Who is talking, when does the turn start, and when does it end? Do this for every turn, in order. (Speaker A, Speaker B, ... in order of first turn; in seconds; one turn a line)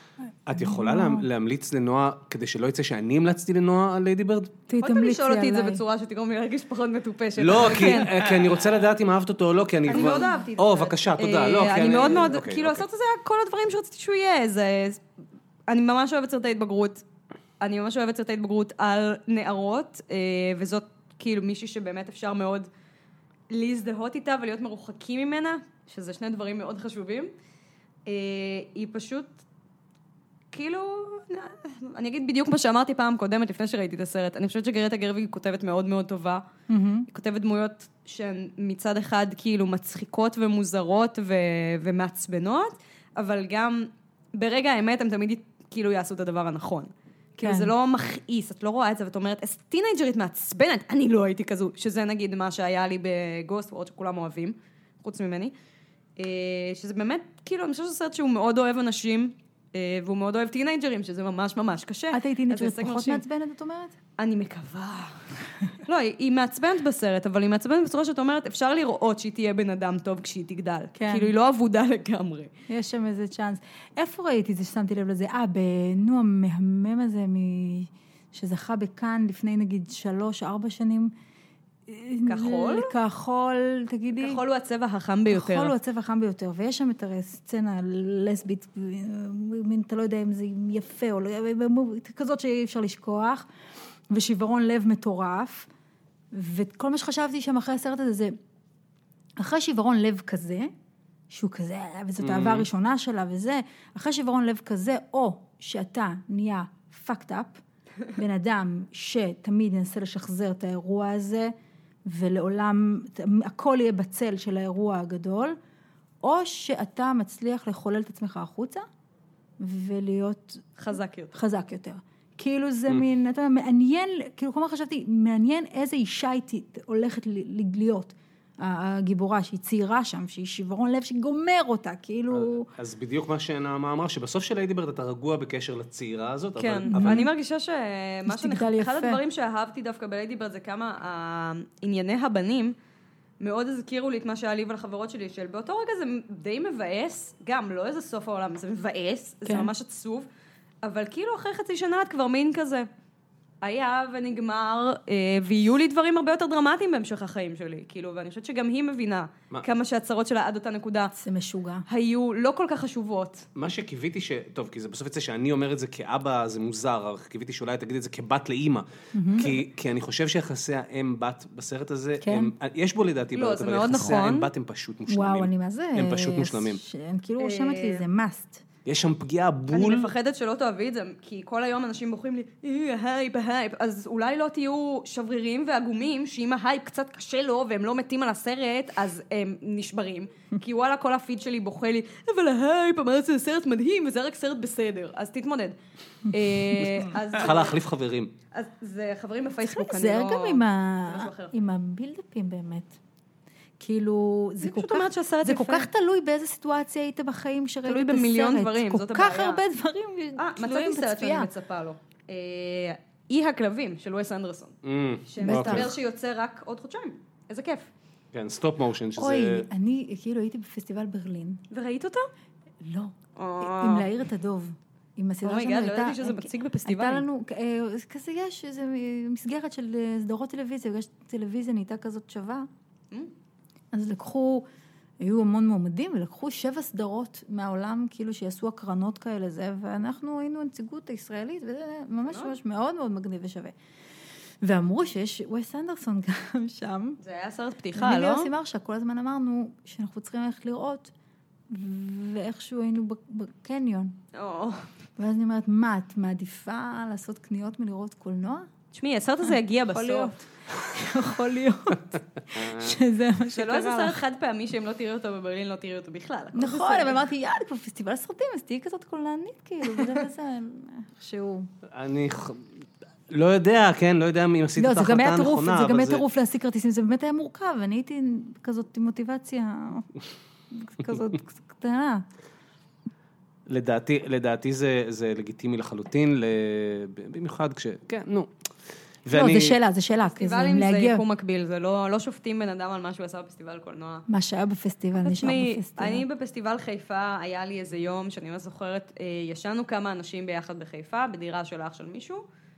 Speaker A: 0.5-4.6
Speaker B: 0.5-1.3
Speaker B: 4.7-5.8
Speaker C: 4.8-8.2
Speaker A: 7.4-12.8
Speaker C: 9.9-15.0
Speaker C: 15.7-17.0
Speaker C: 17.6-22.7
Speaker C: 23.5-27.3
Speaker C: 28.1-29.4
Speaker C: 30.5-36.4
Speaker B: 36.7-37.1
Speaker C: 37.1-55.5
Speaker B: 47.4-47.7
Speaker C: 56.2-63.2
Speaker B: 62.1-64.0
Speaker C: 64.2-65.2
Speaker C: 65.7-72.5
Speaker B: 71.0-71.3
Speaker B: 72.7-81.1
Speaker B: 81.9-84.4
Speaker C: 82.3-82.9
Speaker C: 84.2-85.7
Speaker B: 85.3-93.5
Speaker B: 94.1-95.7
Speaker B: 96.3-98.4
Speaker B: 99.4-100.7
Speaker B: 101.3-107.6
Speaker A: 102.2-102.7
Speaker B: 108.1-111.5
Speaker B: 112.1-115.6
Speaker B: 116.2-118.9
Speaker B: 119.6-120.8
Speaker C: 120.8-121.3
Speaker B: 121.3-132.7
Speaker A: 132.3-137.3
Speaker C: 136.6-142.8
Speaker B: 136.9-137.3
Speaker B: 138.3-139.2
Speaker C: 143.4-150.3
Speaker B: 149.4-149.7
Speaker C: 150.8-152.9
Speaker C: 153.6-161.1
Speaker B: 161.2-161.8
Speaker C: 161.9-163.5
Speaker A: 163.5-176.8
Speaker B: 169.1-169.5
Speaker B: 172.2-172.5
Speaker C: 173.3-174.5
Speaker B: 175.1-178.6
Speaker C: 177.4-178.0
Speaker A: 178.8-180.1
Speaker C: 179.7-195.8
Speaker C: 196.3-197.8
Speaker A: 197.3-198.3
Speaker C: 198.5-201.5
Speaker B: 199.7-203.0
Speaker B: 203.8-211.5
Speaker C: 204.6-205.9
Speaker C: 207.9-209.6
Speaker C: 210.4-214.8
Speaker A: 214.8-216.0
Speaker C: 215.3-217.9
Speaker B: 215.4-215.9
Speaker A: 218.3-219.7
Speaker B: 219.2-221.6
Speaker C: 221.7-222.3
Speaker B: 222.8-232.7
Speaker C: 223.4-224.1
Speaker C: 225.4-227.2
Speaker B: 233.9-234.7
Speaker B: 235.2-243.7
Speaker B: 244.6-247.2
Speaker C: 247.2-248.5
Speaker B: 247.9-251.1
Speaker B: 251.7-254.2
Speaker C: 254.3-254.9
Speaker B: 255.2-258.7
Speaker C: 258.9-260.4
Speaker B: 259.9-264.2
Speaker A: 262.5-263.0
Speaker C: 263.5-267.2
Speaker B: 266.5-271.7
Speaker A: 271.9-272.6
Speaker A: 273.3-276.2
Speaker B: 274.8-280.1
Speaker B: 280.7-282.2
Speaker A: 283.7-288.5
Speaker A: 289.2-289.8
Speaker B: 289.3-291.2
Speaker C: 290.3-294.2
Speaker B: 294.3-296.2
Speaker C: 295.2-302.4